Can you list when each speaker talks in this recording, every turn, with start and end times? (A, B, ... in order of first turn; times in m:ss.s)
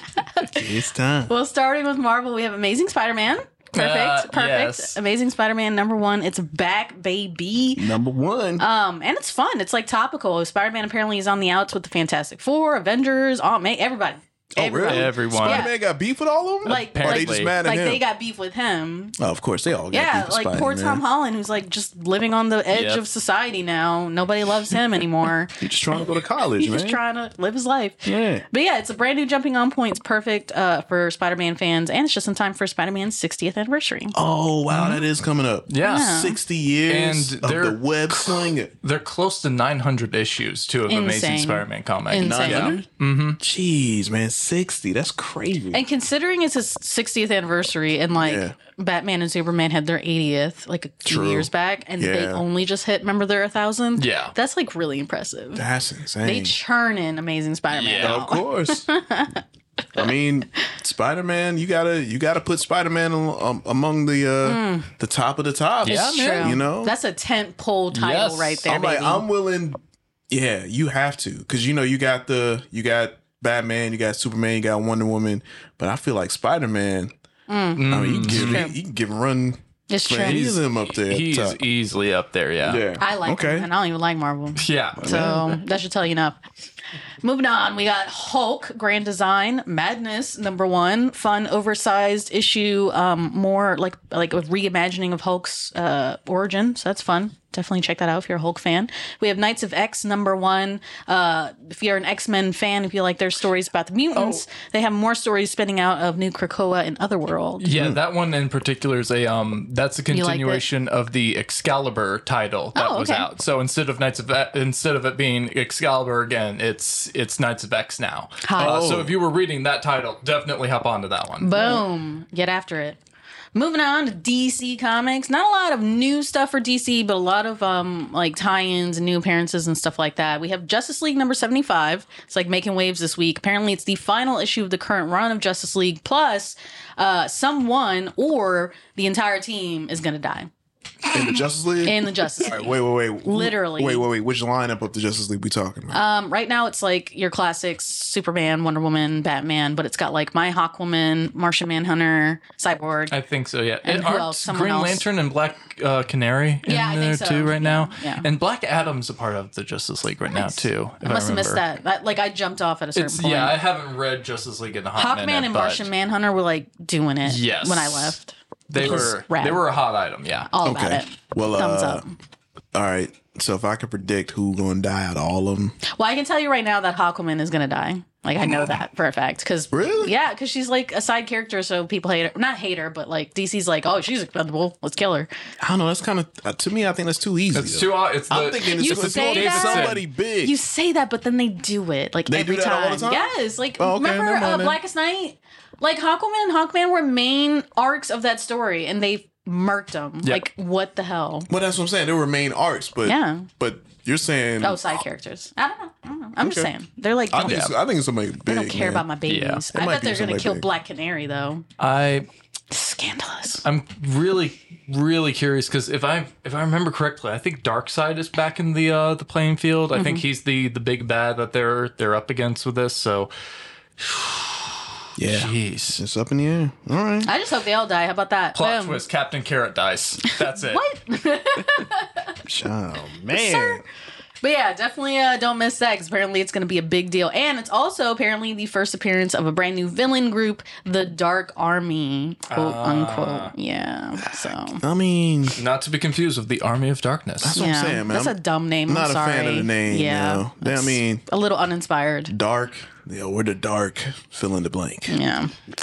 0:00.2-0:00.5 A
0:00.5-0:01.3 B
0:01.3-0:07.9 A
0:03.8-0:05.0 C
0:07.8-0:08.6 B
0:08.6-0:15.7 A
0:14.5-0:18.0 B
0:14.9-0:15.7 C
0:16.6-0:19.2 A
0:16.6-0:17.5 C
0:19.2-0:21.0 B
0:19.9-0:25.6 A
0:22.7-0:23.0 C
0:25.6-0:27.0 B
0:26.6-0:34.1 A
0:28.0-0:28.4 B
0:34.1-0:38.7 B
0:34.7-0:35.0 C
0:35.7-0:36.2 C
0:35.8-0:36.4 A
0:36.9-0:43.4 C
0:40.9-0:42.8 A
0:42.2-0:42.9 B
0:43.4-0:45.8 B
0:45.7-0:55.6 A
0:48.2-0:48.5 B
0:51.0-0:52.4 B
0:54.0-0:54.3 C
0:55.5-0:56.5 B
0:56.2-0:59.4 A
0:57.7-0:58.2 C
0:58.0-0:58.9 B
0:59.9-1:06.9 B
1:04.4-1:04.9 A
1:05.8-1:06.6 C
1:05.8-1:09.2 A
1:07.9-1:08.6 C
1:08.6-1:09.8 B
1:10.3-1:17.1 B
1:17.5-1:18.8 A
1:17.8-1:18.6 C
1:17.9-1:21.6 B
1:19.9-1:20.4 A
1:20.2-1:22.8 C
1:22.6-1:23.7 B
1:23.0-1:26.4 A
1:24.6-1:25.2 C
1:25.0-1:25.6 B
1:27.2-1:47.6 A
1:47.6-2:01.8 C
1:47.7-1:48.0 B
1:50.1-1:50.6 A
1:52.7-1:53.3 A
1:58.4-1:58.8 A
1:58.6-1:59.2 B
2:01.4-2:03.0 A
2:03.5-2:20.5 A
2:21.1-2:26.0 B
2:21.8-2:22.7 A
2:23.2-2:24.0 A
2:25.9-2:33.1 A
2:33.1-2:41.6 C
2:33.8-2:35.0 A
2:36.6-2:38.2 A
2:40.3-2:43.6 A
2:42.9-2:45.9 C
2:45.0-2:49.6 A
2:47.2-2:48.2 C
2:48.7-2:50.5 C
2:48.8-2:49.1 B
2:50.5-2:52.2 A
2:50.6-2:52.0 B
2:52.7-2:55.8 B
2:55.9-3:05.3 A
2:59.7-3:00.1 B
3:05.6-3:10.5 B
3:07.5-3:10.0 C
3:08.8-3:21.5 A
3:12.3-3:14.8 B
3:21.5-3:24.8 B
3:23.0-3:23.5 A
3:24.6-3:27.6 A
3:26.4-3:26.7 B
3:27.3-3:29.1 B
3:27.4-3:27.7 C
3:28.4-3:31.6 A
3:29.3-3:29.6 C
3:29.7-3:30.6 B
3:31.8-3:32.3 C
3:32.7-3:33.6 A
3:33.6-3:43.3 C
3:39.9-3:40.2 A
3:44.0-3:46.0 C
3:45.2-3:47.3 B
3:47.2-3:49.0 A
3:48.5-3:50.8 C
3:50.6-3:52.3 A
3:52.4-3:53.8 B
3:53.3-3:53.8 A
3:54.4-4:04.8 A
4:02.5-4:03.5 C
4:04.2-4:05.6 B
4:05.6-4:07.6 C
4:07.4-4:11.2 B
4:07.6-4:12.3 A
4:12.3-4:15.2 B
4:15.1-4:15.5 A